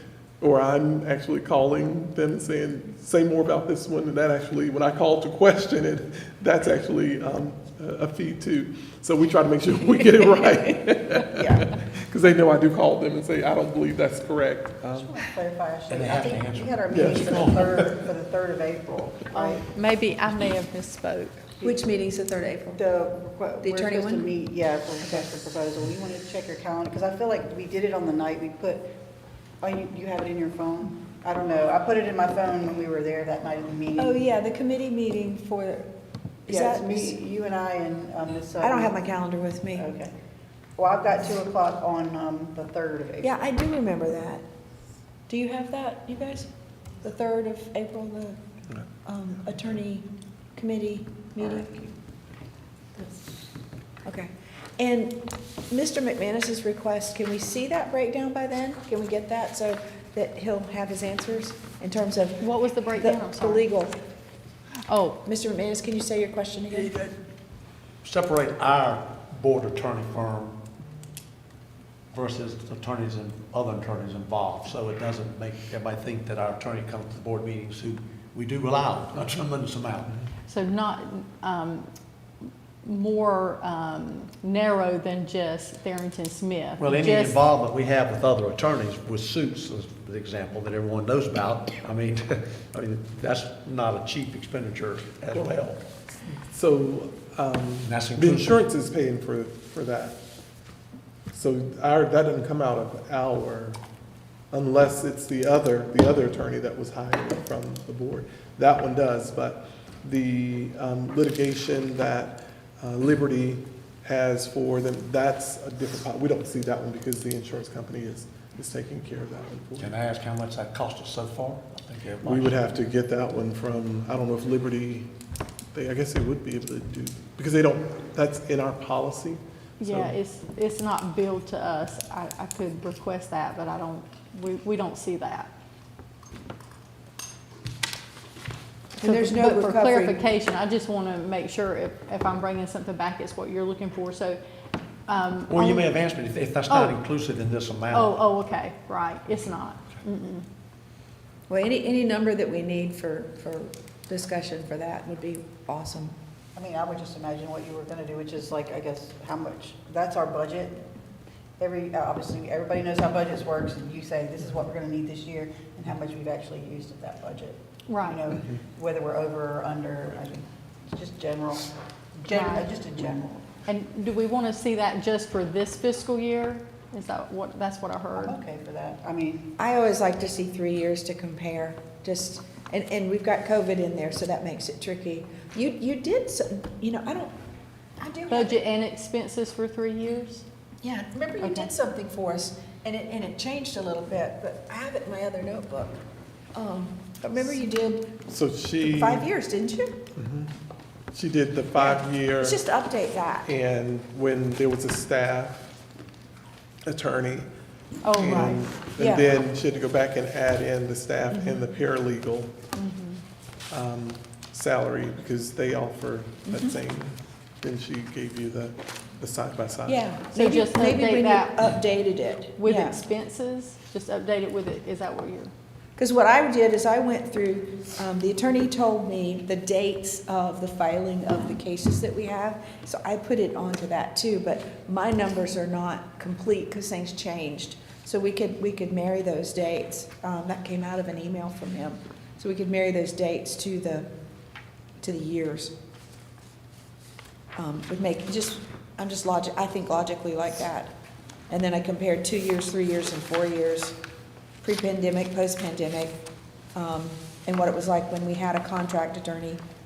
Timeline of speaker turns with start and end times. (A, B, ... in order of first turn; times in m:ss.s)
0:00.4-0:15.2 A
0:11.2-0:11.7 B
0:15.0-0:19.6 C
0:15.9-0:17.8 D
0:16.9-0:17.4 A
0:19.3-0:21.5 E
0:21.6-0:22.8 B
0:22.8-0:28.9 C
0:23.6-0:24.3 B
0:25.0-0:25.4 B
0:29.6-0:34.2 C
0:34.0-0:35.9 B
0:36.5-0:37.2 B
0:36.5-0:39.0 C
0:38.6-0:39.9 B
0:39.8-0:40.1 C
0:40.8-0:43.4 C
0:43.2-0:44.4 B
0:45.3-0:46.5 B
0:47.0-0:48.4 B
0:49.0-0:51.9 B
0:54.0-1:04.0 B
1:02.4-1:03.7 E
1:04.9-1:05.2 E
1:05.2-1:06.9 B
1:06.7-1:07.1 D
1:08.0-1:10.6 D
1:12.1-1:20.2 D
1:20.5-1:21.9 E
1:22.8-1:27.4 E
1:26.8-1:35.8 D
1:35.3-1:35.7 A
1:36.2-1:40.2 A
1:37.8-1:38.6 D
1:41.3-1:43.8 A
1:44.5-1:59.9 A
1:59.8-2:02.7 D
2:02.2-2:05.1 A
2:05.7-2:10.2 A
2:09.8-2:15.5 E
2:19.0-2:20.2 B
2:19.0-2:24.4 E
2:25.1-2:25.9 E
2:25.5-2:28.2 D
2:26.7-2:27.0 E
2:27.9-2:30.5 E
2:31.5-2:36.2 B
2:36.6-2:40.8 C
2:41.6-2:53.5 C
2:47.9-2:48.2 E
2:52.3-2:52.7 E
2:53.7-2:58.4 E
2:58.2-2:59.5 C
2:59.6-3:07.3 B
3:08.0-3:08.6 B
3:08.3-3:10.4 E
3:10.8-3:16.0 B
3:11.4-3:11.7 E
3:16.5-3:18.2 B
3:18.3-3:19.3 A
3:18.9-3:20.0 B
3:20.2-3:20.5 A
3:21.1-3:22.6 A
3:21.8-3:23.5 B
3:23.4-3:25.7 A
3:26.9-3:27.5 A
3:28.0-3:28.7 E
3:28.1-3:32.5 A
3:29.0-3:29.3 B
3:31.3-3:31.7 B
3:33.7-3:40.1 A
3:36.5-3:36.8 B
3:39.9-3:43.0 B
3:40.3-3:41.7 E
3:42.6-3:45.5 E
3:46.0-4:04.1 B
4:05.0-4:05.7 B
4:07.6-4:10.9 B
4:11.5-4:14.0 B
4:14.6-4:16.2 B
4:16.7-4:19.6 B